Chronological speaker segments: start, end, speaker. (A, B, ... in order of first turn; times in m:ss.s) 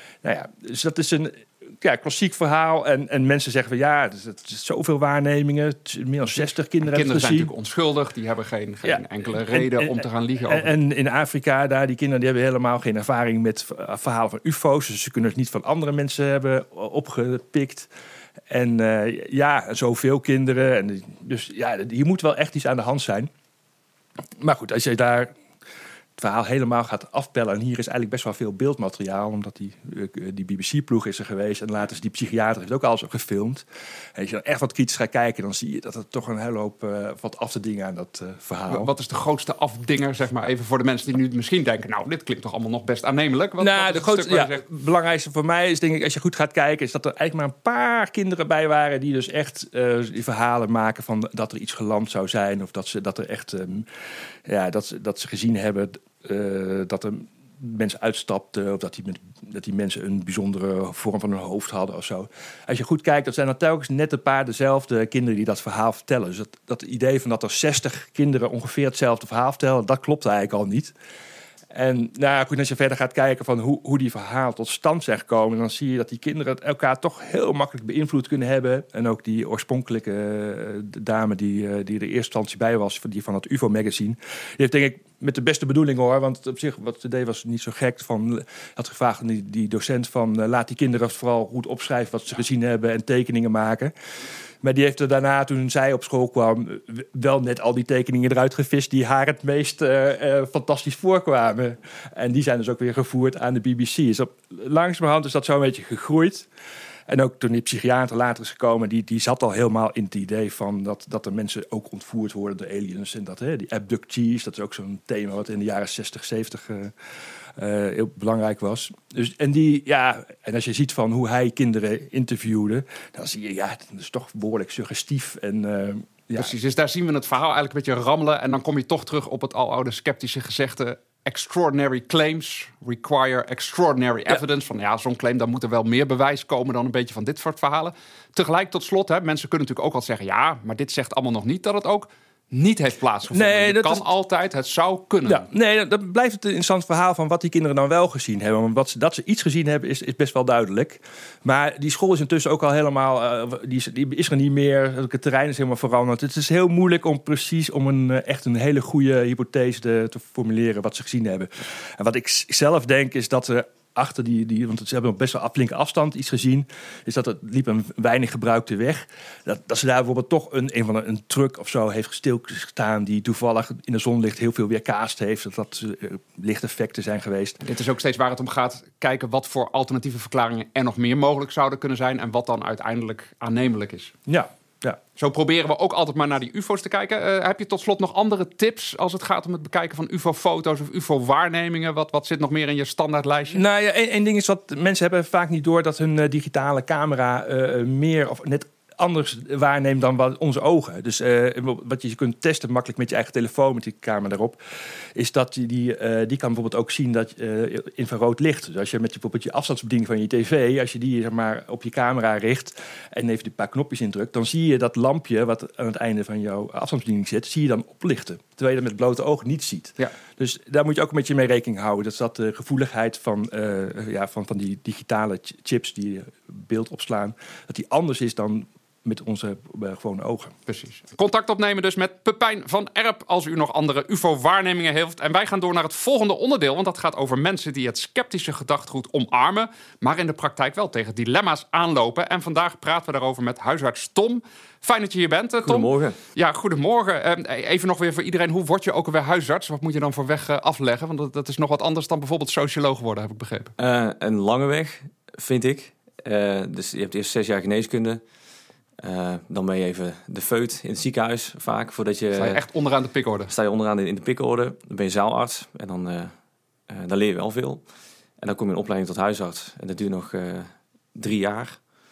0:00.2-0:07.5 A
0:06.8-0:10.7 B
0:08.8-0:17.9 A
0:18.5-0:23.3 A
0:24.4-0:25.3 A
0:26.2-0:38.9 A
0:38.7-0:44.6 B
0:43.6-0:53.9 A
0:54.4-1:10.9 A
1:11.7-1:33.9 A
1:34.6-1:46.5 A
1:47.1-1:56.9 A
1:57.6-2:06.5 A
2:06.3-2:25.5 B
2:23.3-2:24.0 A
2:25.2-2:57.6 A
2:57.6-3:04.1 B
3:04.3-3:05.0 A
3:05.2-3:13.6 B
3:13.5-3:24.6 A
3:25.1-3:50.5 A
3:50.7-4:13.7 B
4:05.6-4:06.2 C
4:13.8-4:18.2 C
4:19.0-4:22.6 C
4:22.3-4:23.5 B
4:23.5-4:26.3 C
4:26.9-4:27.8 C
4:28.4-4:31.8 C